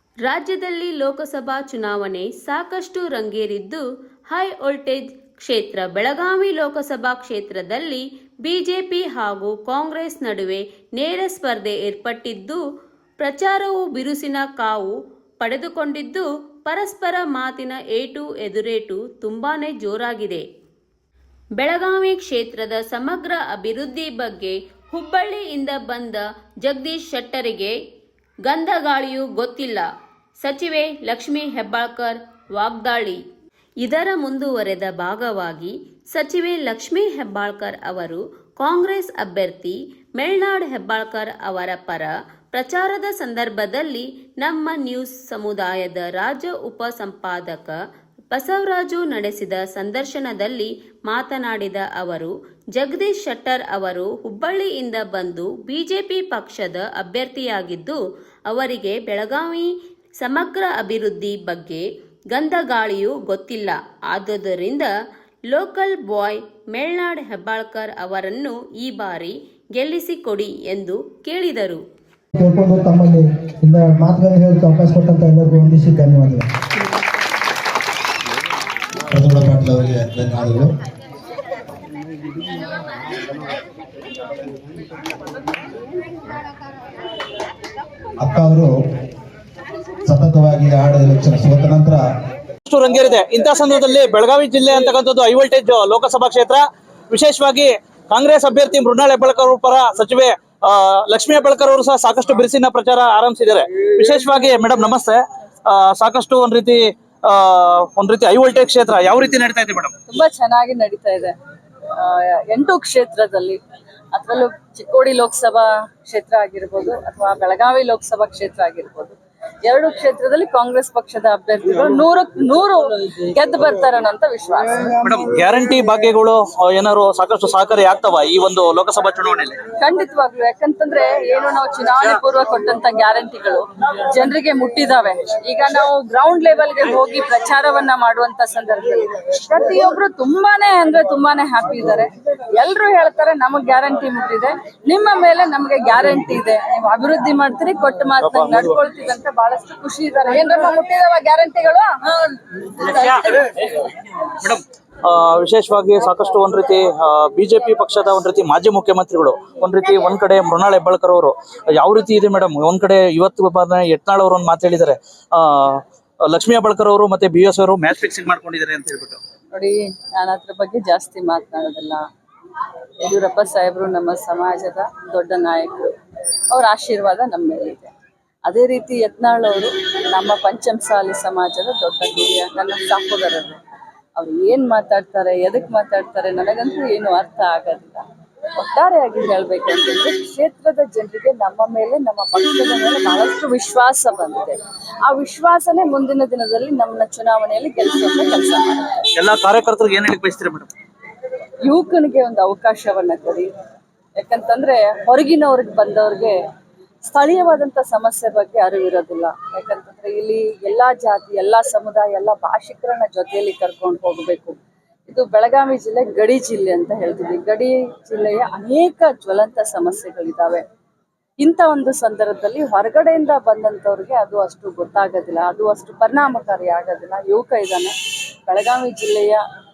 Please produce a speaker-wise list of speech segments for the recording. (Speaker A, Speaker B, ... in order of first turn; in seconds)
Speaker A: 0.2-12.6, 13.2-20.4, 21.6-27.7, 28.5-29.9, 30.4-33.2, 33.8-47.7, 48.3-58.0, 58.5-59.7, 60.2-64.9, 65.5-71.8
Speaker B: 72.3-76.5
Speaker C: 79.1-80.7, 88.2-88.7, 90.0-92.0
Speaker D: 92.6-109.9, 125.0-129.6, 148.2-148.7, 152.8-153.5, 154.4-169.2, 199.2-200.7
Speaker E: 110.1-111.3, 112.0-113.6, 114.1-125.0, 129.8-151.9, 169.5-172.0, 173.0-175.9, 176.5-177.9, 178.4-183.6, 184.2-188.0, 188.6-199.0, 201.7-203.5, 204.2-206.4, 207.0-214.6, 215.1-220.6, 221.4-227.9, 228.5-229.4